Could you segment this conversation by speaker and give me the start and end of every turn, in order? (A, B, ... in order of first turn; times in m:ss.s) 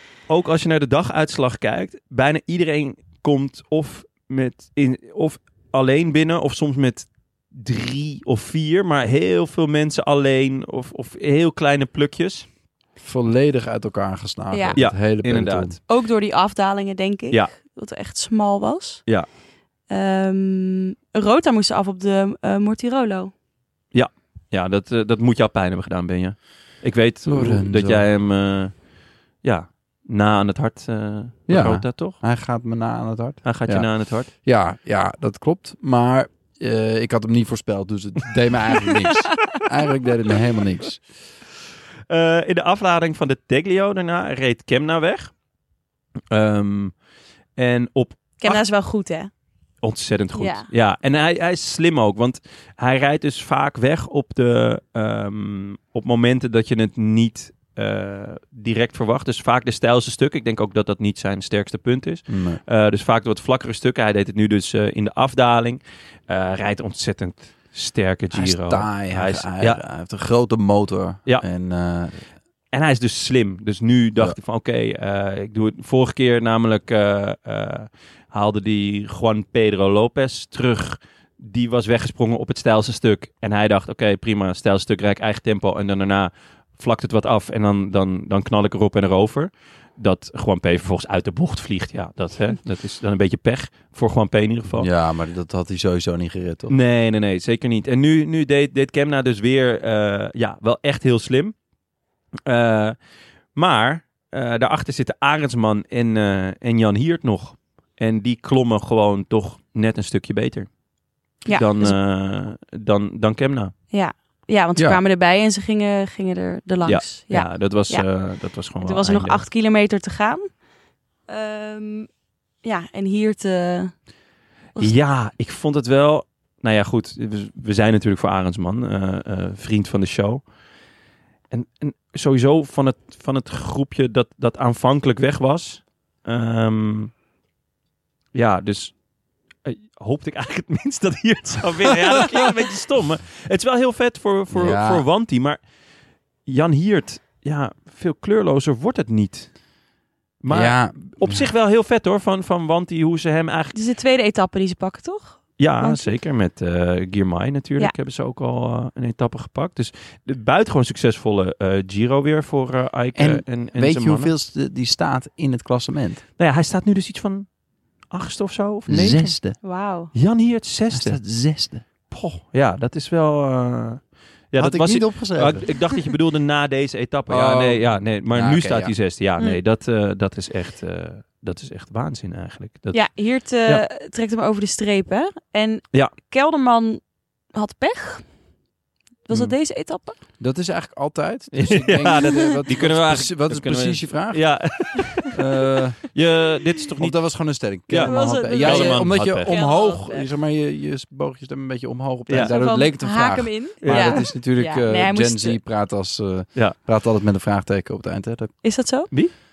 0:00.3-0:12.5 A
0:13.0-0:15.8 B
0:14.5-0:14.8 C
0:14.8-0:15.8 A
0:15.9-0:19.0 C
0:19.9-0:23.3 C
0:23.9-0:28.7 A
0:27.3-0:28.0 B
0:29.4-0:32.2 A
0:31.5-0:33.9 B
0:33.4-0:34.3 A
0:34.4-0:41.0 B
0:42.1-0:45.3 A
0:46.3-0:46.9 A
0:47.6-0:48.6 A
0:48.4-0:49.3 C
0:49.8-1:09.8 A
0:50.3-0:50.7 C
1:02.3-1:02.6 B
1:08.3-1:12.2 B
1:12.7-1:34.9 A
1:34.8-1:36.8 B
1:36.7-1:41.5 A
1:42.5-1:43.0 A
1:43.6-1:50.7 A
1:51.4-1:52.0 C
1:51.5-1:53.7 A
1:53.9-1:58.1 C
1:56.8-1:59.4 A
1:58.8-2:00.5 C
2:01.3-2:02.1 C
2:02.6-2:03.9 C
2:04.8-2:10.4 A
2:11.5-2:17.1 A
2:18.3-2:18.9 A
2:19.6-2:25.6 A
2:24.5-2:25.0 B
2:26.5-2:29.6 A
2:30.4-2:33.8 A
2:30.5-2:31.5 B
2:33.7-2:36.1 C
2:35.6-2:44.3 A
2:43.2-2:46.2 B
2:46.4-2:47.5 A
2:48.1-2:49.6 A
2:48.9-2:49.6 B
2:49.6-2:50.1 C
2:50.1-2:51.2 A
2:50.9-2:51.8 B
2:52.1-3:03.1 A
2:54.6-2:55.7 B
2:57.3-2:59.0 B
3:02.9-3:07.0 C
3:07.5-3:08.3 C
3:09.3-3:10.2 C
3:10.4-3:16.0 B
3:11.5-3:15.3 A
3:16.0-3:19.6 A
3:17.0-3:28.5 B
3:18.0-3:20.3 C
3:22.4-3:25.6 C
3:23.8-3:24.3 A
3:28.6-3:29.1 C